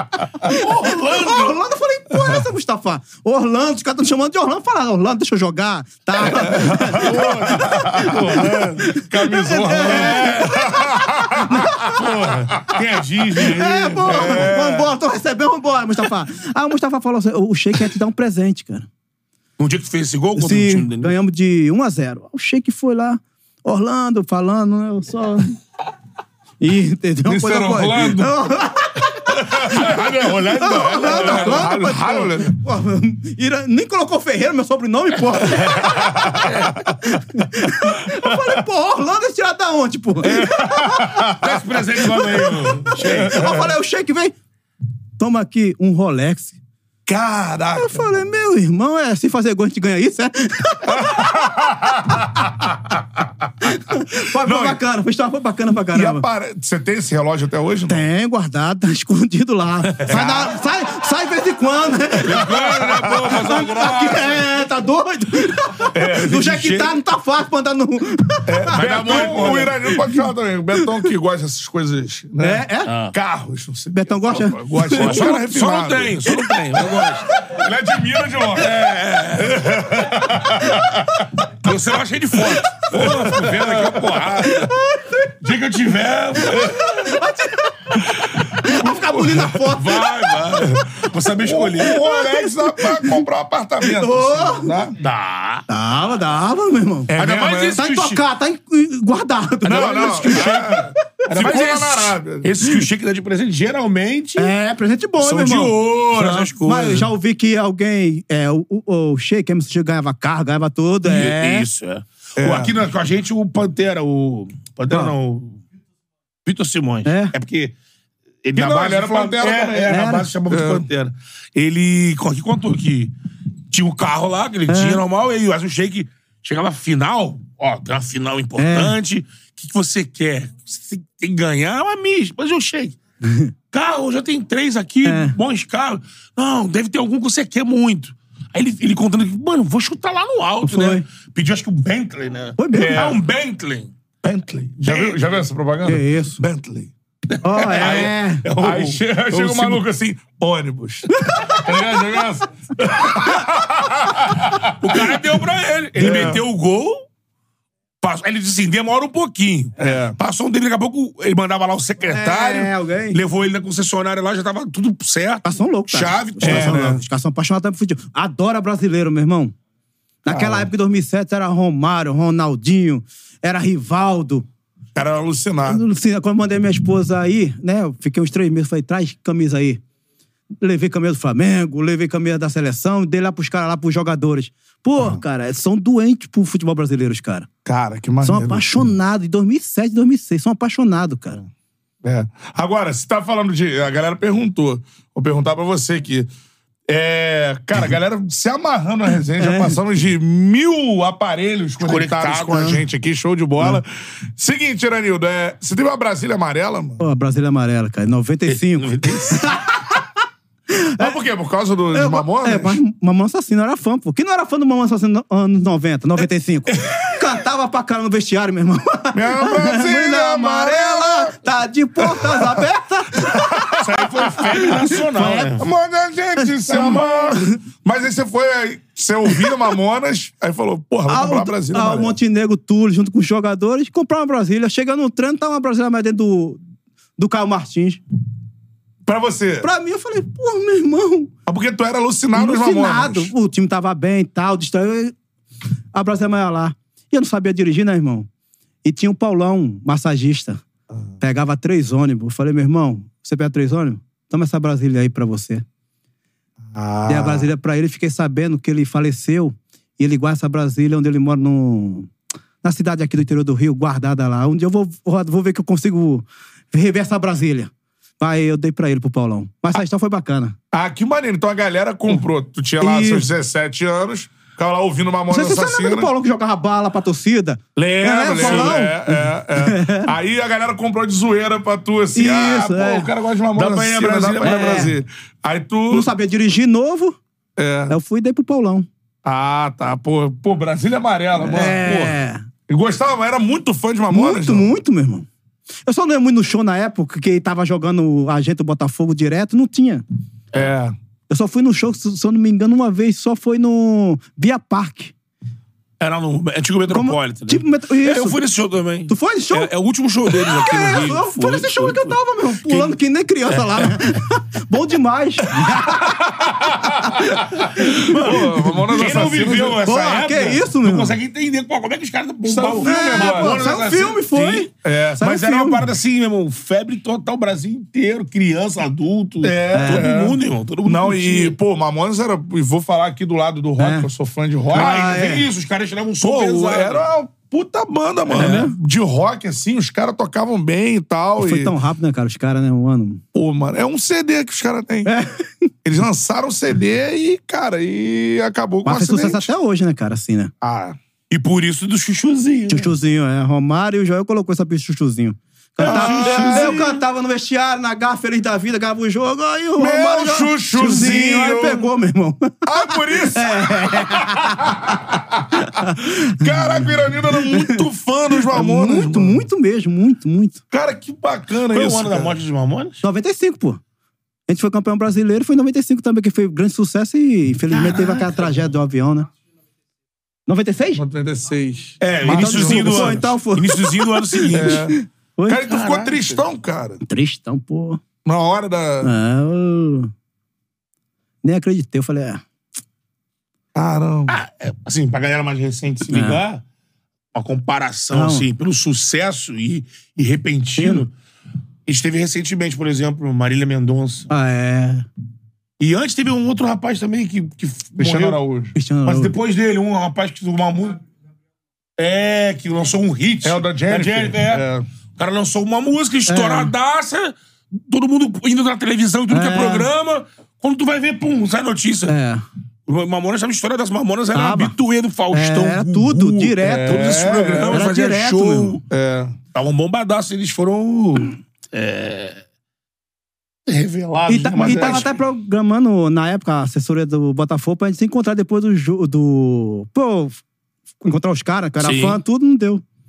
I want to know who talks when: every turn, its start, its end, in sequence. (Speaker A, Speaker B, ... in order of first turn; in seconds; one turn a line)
Speaker A: 0.4-12.0
Speaker B: 0.5-1.6
Speaker C: 6.3-12.0
Speaker B: 6.9-8.9
Speaker B: 9.8-10.6
Speaker B: 11.9-14.5
Speaker A: 13.3-18.9
Speaker C: 14.1-14.9
Speaker B: 19.6-21.1
Speaker A: 20.4-25.6
Speaker A: 26.6-41.4
Speaker C: 27.2-28.4
Speaker C: 29.3-30.0
Speaker B: 29.6-31.7
Speaker C: 31.0-32.5
Speaker C: 35.6-37.0
Speaker B: 36.4-36.7
Speaker C: 37.8-38.6
Speaker C: 40.2-43.7
Speaker B: 41.3-43.5
Speaker A: 42.4-44.3
Speaker A: 45.2-46.6
Speaker C: 47.0-48.2
Speaker A: 47.7-52.3
Speaker C: 50.9-52.7
Speaker A: 53.6-56.2
Speaker C: 54.3-54.8
Speaker C: 55.9-58.0
Speaker A: 57.9-62.6
Speaker C: 60.0-60.5
Speaker B: 62.2-64.4
Speaker C: 62.3-63.4
Speaker A: 63.3-70.2
Speaker C: 65.9-66.4
Speaker B: 66.1-67.0
Speaker C: 68.5-76.3
Speaker B: 68.7-69.8
Speaker A: 70.8-71.1
Speaker A: 72.4-72.9
Speaker B: 72.8-73.1
Speaker A: 73.9-75.4
Speaker B: 75.0-77.3
Speaker A: 77.3-77.6
Speaker C: 77.4-81.2
Speaker B: 78.5-79.6
Speaker B: 81.6-84.6
Speaker C: 82.8-84.7
Speaker A: 84.5-85.3
Speaker B: 85.4-86.8
Speaker A: 86.5-90.4
Speaker C: 86.5-86.8
Speaker C: 88.1-89.6
Speaker B: 89.5-92.0
Speaker C: 90.6-95.0
Speaker A: 91.8-93.2
Speaker A: 93.8-94.7
Speaker B: 94.9-95.7
Speaker A: 95.7-97.1
Speaker C: 97.1-97.8
Speaker B: 97.1-98.2
Speaker A: 97.7-100.9
Speaker C: 99.6-102.5
Speaker B: 99.7-100.7
Speaker B: 101.3-104.5
Speaker A: 104.4-111.7
Speaker B: 105.2-107.1
Speaker B: 111.0-115.6
Speaker C: 112.4-112.8
Speaker B: 116.5-117.7
Speaker A: 117.0-117.3
Speaker B: 118.4-123.1
Speaker C: 118.5-120.9
Speaker A: 119.9-120.3
Speaker B: 123.7-133.0
Speaker A: 124.7-125.0
Speaker A: 128.6-128.9
Speaker A: 133.2-133.5
Speaker B: 133.7-143.9
Speaker A: 135.0-135.3
Speaker A: 140.6-141.0
Speaker A: 142.6-143.1
Speaker C: 142.7-143.2
Speaker C: 144.2-146.9
Speaker B: 144.8-145.2
Speaker A: 145.8-146.4
Speaker B: 147.3-149.8
Speaker A: 147.4-148.4
Speaker C: 148.6-155.2
Speaker A: 151.2-151.9
Speaker B: 154.8-157.0
Speaker C: 155.9-156.4
Speaker A: 156.0-156.4
Speaker B: 158.0-166.9
Speaker C: 159.8-160.2
Speaker A: 162.1-163.2
Speaker A: 165.4-169.5
Speaker C: 166.4-167.0
Speaker A: 170.2-174.4
Speaker C: 170.3-170.7
Speaker C: 174.9-175.8
Speaker A: 175.6-179.8
Speaker A: 180.6-187.5
Speaker C: 187.6-188.9
Speaker A: 188.2-191.4
Speaker C: 192.0-196.3
Speaker C: 196.9-207.0
Speaker A: 199.4-199.8
Speaker B: 201.8-202.8
Speaker A: 207.0-210.0
Speaker B: 208.5-209.6
Speaker A: 210.7-211.2
Speaker C: 211.0-212.8
Speaker A: 211.9-225.6
Speaker C: 219.1-221.4
Speaker C: 222.0-222.6
Speaker C: 223.2-224.8
Speaker B: 223.8-225.7
Speaker C: 225.6-232.2
Speaker A: 226.7-227.4
Speaker B: 226.7-227.0
Speaker A: 231.1-236.6
Speaker A: 237.2-238.0
Speaker C: 239.0-239.7
Speaker A: 239.6-241.3
Speaker C: 241.4-243.3
Speaker A: 242.3-245.1
Speaker A: 245.9-248.3
Speaker A: 248.8-250.6
Speaker A: 251.2-255.6
Speaker C: 256.7-257.5
Speaker A: 257.1-262.1
Speaker A: 262.6-270.6
Speaker C: 270.7-276.1
Speaker A: 272.8-273.2
Speaker A: 275.3-280.1
Speaker C: 277.8-286.1
Speaker B: 278.3-278.8
Speaker A: 282.1-283.1
Speaker B: 283.5-284.9
Speaker A: 284.4-284.9
Speaker A: 285.9-287.2
Speaker C: 287.6-287.9
Speaker A: 287.9-288.9
Speaker C: 289.2-292.1
Speaker A: 291.4-292.5
Speaker C: 292.7-294.7
Speaker A: 294.1-295.3
Speaker A: 295.9-300.0
Speaker C: 300.5-300.9
Speaker A: 301.3-305.1
Speaker B: 306.0-312.9
Speaker A: 306.9-308.4
Speaker A: 309.1-309.7
Speaker A: 310.3-316.3
Speaker B: 313.5-313.9
Speaker C: 315.9-319.8
Speaker A: 316.9-319.2
Speaker B: 318.0-331.6
Speaker A: 319.8-321.1
Speaker C: 322.4-323.6
Speaker A: 322.8-325.9
Speaker C: 324.8-325.2
Speaker C: 329.4-335.2
Speaker A: 329.7-330.1
Speaker A: 333.8-334.1
Speaker B: 334.7-337.1
Speaker A: 334.7-335.5
Speaker C: 336.2-341.7
Speaker A: 338.3-338.7
Speaker B: 338.4-338.6
Speaker A: 341.4-343.2
Speaker C: 343.3-345.1
Speaker A: 345.0-345.7
Speaker C: 345.8-349.5
Speaker A: 348.8-350.5
Speaker C: 350.6-351.0
Speaker B: 351.3-352.9
Speaker A: 352.7-367.9
Speaker B: 355.8-357.0
Speaker C: 355.8-356.8
Speaker C: 359.8-361.9
Speaker C: 362.6-369.4
Speaker A: 368.4-370.6
Speaker C: 370.7-372.3
Speaker B: 371.6-373.0
Speaker A: 373.0-373.8
Speaker A: 374.5-379.3
Speaker B: 377.7-378.7
Speaker A: 380.5-381.0
Speaker C: 380.9-383.3
Speaker B: 382.0-384.8
Speaker A: 382.3-386.1
Speaker C: 384.5-384.9
Speaker C: 385.5-387.0
Speaker B: 385.7-386.4
Speaker A: 387.0-388.0
Speaker C: 388.2-389.1
Speaker A: 389.0-390.1
Speaker A: 391.4-392.4
Speaker C: 393.7-394.4
Speaker B: 394.3-396.6
Speaker A: 396.1-396.4
Speaker B: 397.3-401.1
Speaker A: 398.1-398.4
Speaker A: 400.8-401.1
Speaker B: 401.9-404.3
Speaker A: 404.3-405.1
Speaker B: 405.8-408.4
Speaker C: 407.9-408.7
Speaker A: 408.7-409.3
Speaker B: 409.0-411.0
Speaker B: 412.0-414.6
Speaker C: 413.4-414.8
Speaker B: 415.2-422.1
Speaker A: 416.3-416.7
Speaker A: 419.3-419.9
Speaker A: 422.1-422.4
Speaker B: 422.9-428.8
Speaker A: 424.3-424.7
Speaker A: 425.3-428.8
Speaker C: 426.6-427.9
Speaker C: 428.9-429.3
Speaker B: 429.5-432.4
Speaker B: 433.7-435.2
Speaker A: 434.3-440.4
Speaker C: 434.6-435.0
Speaker A: 441.0-442.8
Speaker B: 441.8-442.2